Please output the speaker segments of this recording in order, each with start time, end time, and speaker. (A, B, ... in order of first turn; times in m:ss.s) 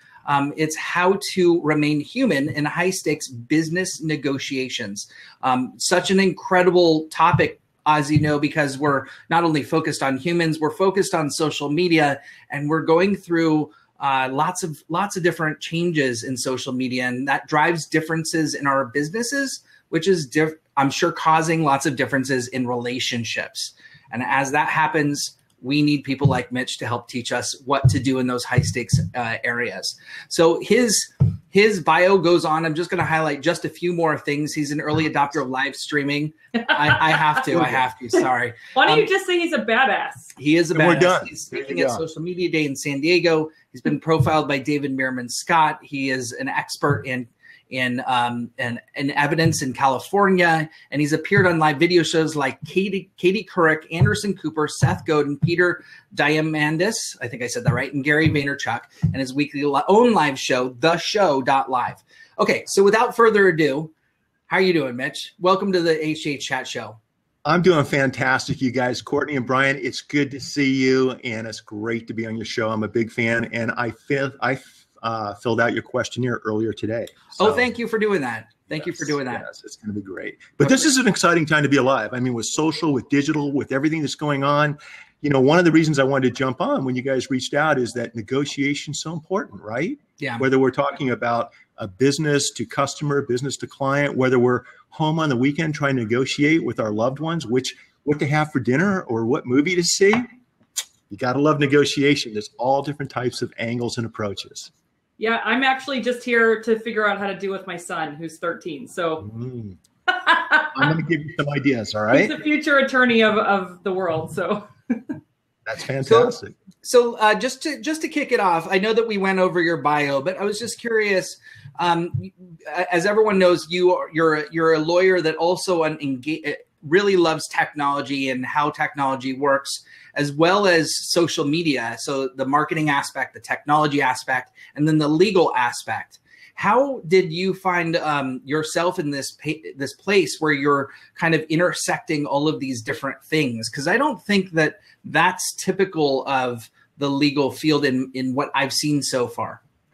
0:00.2-0:39.1 A
0:37.5-0:37.8 B
0:38.8-0:40.3 C
0:40.4-1:03.9 A
0:40.7-0:42.0 B
1:04.5-1:07.0 A
1:07.4-1:17.7 B
1:17.4-1:19.4 A
1:18.8-1:40.2 B
1:30.2-1:30.4 A
1:41.1-1:44.7 B
1:45.2-1:49.3 C
1:49.2-1:49.8 B
1:50.1-1:50.8 C
1:50.7-1:52.4 B
1:52.1-1:55.2 C
1:55.6-1:56.5 B
1:56.0-2:29.6 A